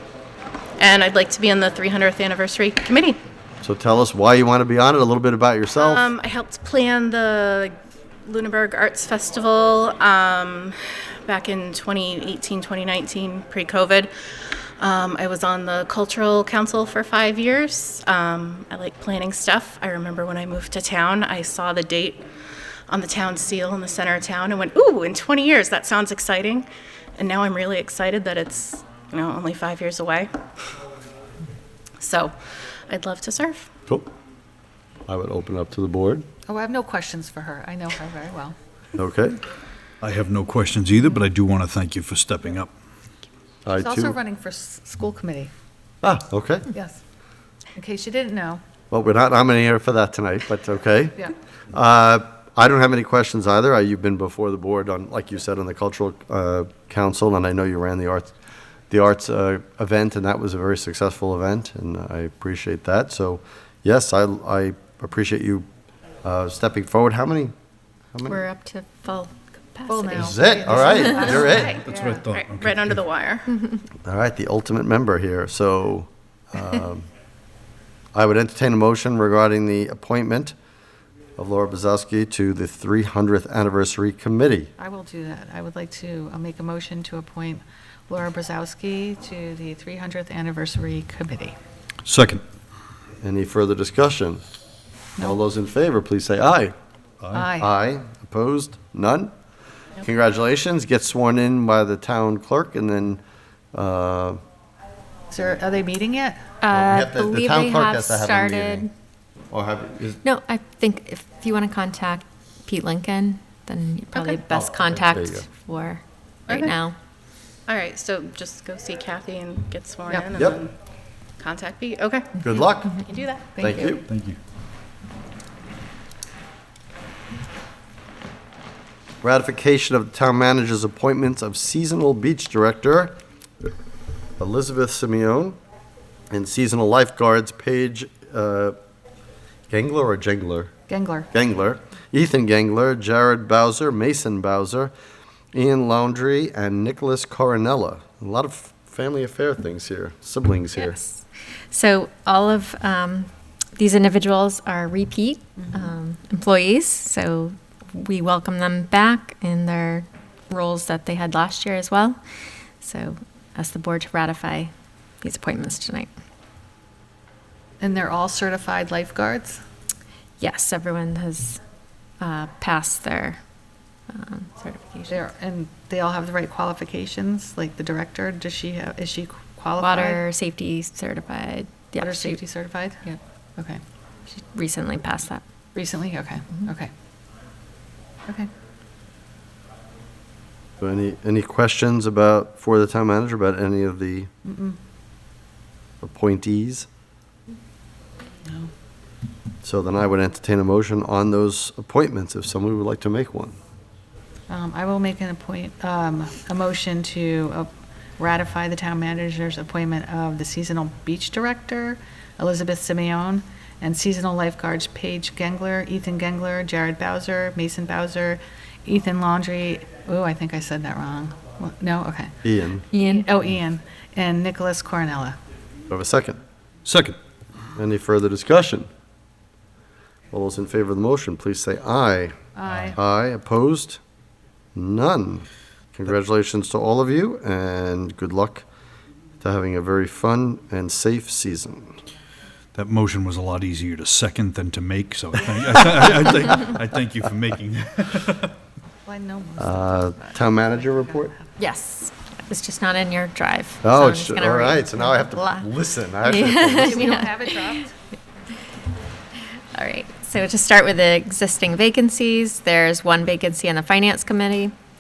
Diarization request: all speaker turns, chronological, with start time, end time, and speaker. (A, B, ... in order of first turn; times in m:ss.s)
0:00.8-0:03.2 A
0:03.6-0:06.1 B
0:05.8-0:22.2 A
0:22.9-0:26.7 A
0:27.2-0:30.3 A
0:32.0-0:32.3 A
0:32.9-0:33.7 A
0:35.1-0:36.2 B
0:36.5-0:38.6 C
0:39.0-0:39.4 B
0:40.0-0:42.7 D
0:43.7-0:44.2 B
0:43.8-0:45.5 C
0:46.0-0:46.7 B
0:46.7-0:47.0 C
0:47.8-0:48.6 C
0:48.9-0:58.3 B
0:58.9-1:05.7 B
1:06.2-1:07.5 B
1:08.1-1:08.4 B
1:08.3-1:10.3 E
1:09.9-1:12.3 C
1:10.1-1:11.8 B
1:10.9-1:11.2 E
1:11.2-1:13.0 D
1:11.4-1:13.5 A
1:14.0-1:17.1 B
1:18.1-1:20.6 B
1:21.4-1:24.7 B
1:24.8-1:31.6 C
1:32.0-1:32.4 D
1:33.2-1:34.4 B
1:35.2-1:36.8 B
1:37.2-1:37.5 D
1:37.3-1:37.7 C
1:37.6-1:39.3 B
1:40.0-1:43.2 B
1:43.7-1:44.4 B
1:45.3-1:46.5 C
1:46.6-1:48.9 E
1:46.7-1:48.9 B
1:49.5-1:50.2 B
1:50.2-1:57.0 E
1:54.1-1:54.4 A
1:54.5-1:55.5 B
1:56.5-1:56.7 A
1:57.7-2:00.7 A
2:00.3-2:00.6 B
2:01.4-2:03.6 A
2:02.4-2:02.9 B
2:03.6-2:03.9 C
2:03.6-2:04.0 B
2:04.1-2:04.4 D
2:09.2-2:13.2 B
2:14.4-2:15.6 B
2:16.3-2:18.8 B
2:19.7-2:20.7 B
2:20.9-2:21.3 C
2:21.3-2:24.9 B
2:25.5-2:31.0 B
2:30.8-2:42.2 E
2:35.6-2:35.9 C
2:42.8-2:46.1 E
2:47.8-2:49.6 C
2:50.4-2:51.6 E
2:52.2-2:53.4 E
2:54.1-2:55.2 E
2:55.1-3:00.2 C
2:59.8-3:02.4 E
3:02.0-3:03.8 C
3:04.3-3:05.4 E
3:05.7-3:06.9 C
3:10.8-3:14.3 B
3:14.4-3:14.8 C
3:16.0-3:16.9 B
3:18.5-3:18.7 C
3:19.6-3:23.6 B
3:24.5-3:42.3 C
3:42.4-3:42.9 B
3:42.9-3:43.2 E
3:43.1-3:45.4 C
3:45.9-3:46.4 B
3:46.8-3:47.2 D
3:47.8-3:48.9 B
3:50.3-3:54.0 B
3:52.6-3:53.0 C
3:54.8-3:58.7 B
3:59.4-4:02.0 B
4:02.8-4:08.5 D
4:09.0-4:11.6 C
4:09.6-4:11.3 B
4:11.6-4:15.7 E
4:13.8-4:17.2 B
4:16.2-4:17.7 E
4:16.7-4:17.9 C
4:19.7-4:24.7 E